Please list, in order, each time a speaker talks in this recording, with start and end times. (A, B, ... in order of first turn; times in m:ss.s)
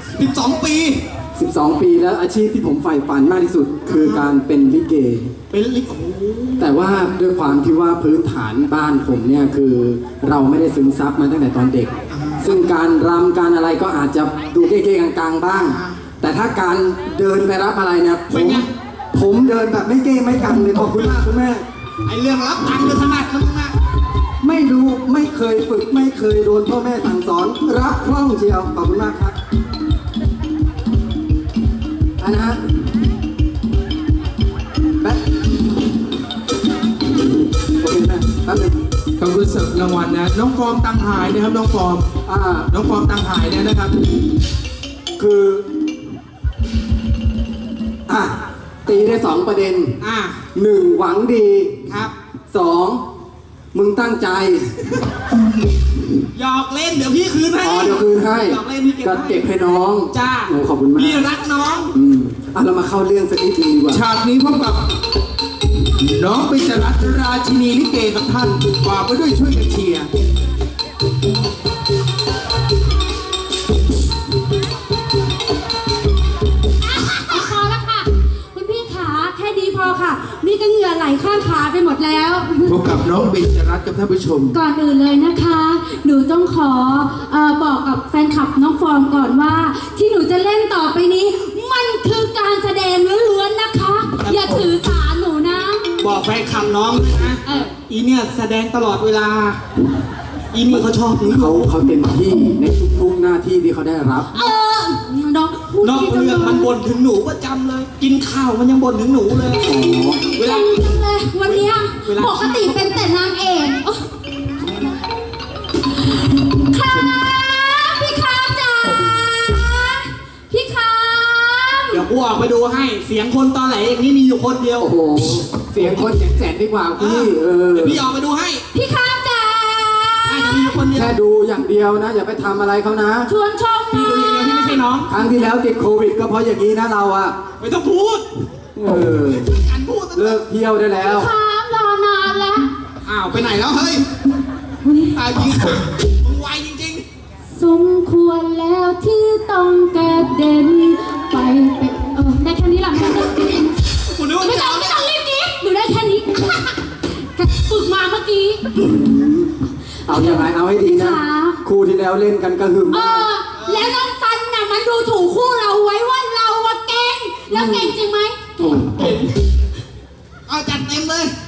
0:00.2-0:01.0 A
0:01.4-0:05.3 B
0:03.8-0:04.2 A
0:05.5-0:06.7 A
0:06.6-0:21.6 B
0:12.1-0:12.7 A
0:15.5-0:16.0 A
0:18.3-0:18.7 A
0:22.0-0:23.8 A
0:24.4-0:29.4 B
0:32.2-0:32.6 B
0:37.8-0:38.8 B
0:39.2-0:42.1 C
0:42.2-0:42.7 B
0:42.7-0:43.9 C
0:45.2-0:45.6 B
0:48.1-0:50.0 B
0:50.0-0:50.4 A
0:50.5-0:51.8 B
0:51.9-0:52.1 A
0:52.5-0:53.0 B
0:53.7-0:54.7 B
0:56.3-0:59.4 A
0:57.6-1:01.3 B
1:00.1-1:01.9 A
1:01.9-1:04.0 B
1:03.9-1:04.8 C
1:06.0-1:10.1 C
1:16.8-1:22.9 D
1:22.6-1:24.6 C
1:24.5-1:35.9 D
1:34.2-1:34.5 A
1:36.0-1:39.6 A
1:37.4-1:37.7 D
1:40.5-1:41.7 A
1:41.2-1:44.4 B
1:44.3-1:46.7 D
1:45.8-1:49.7 A
1:49.6-1:50.3 B
1:50.3-1:54.0 D
1:50.3-1:52.8 A
1:54.6-1:54.9 A
1:56.0-2:02.0 D
2:01.9-2:04.9 A
2:04.8-2:08.0 B
2:07.0-2:08.6 A
2:08.7-2:10.8 D
2:10.2-2:11.1 A
2:10.9-2:13.3 B
2:13.2-2:14.9 D
2:13.9-2:15.1 A
2:15.1-2:17.4 B
2:17.6-2:18.2 A
2:18.7-2:19.6 B
2:19.3-2:20.4 A
2:20.1-2:21.3 B
2:21.0-2:22.7 D
2:23.0-2:24.1 A
2:24.8-2:25.2 D
2:25.1-2:27.0 A
2:27.5-2:33.7 D
2:34.0-2:35.1 A
2:34.4-2:38.7 D
2:38.8-2:43.3 B
2:40.0-2:41.6 D
2:42.9-2:48.8 D
2:43.6-2:43.9 A
2:47.5-2:48.0 B
2:48.6-2:49.0 B
2:48.8-2:49.4 A
2:50.5-2:51.3 A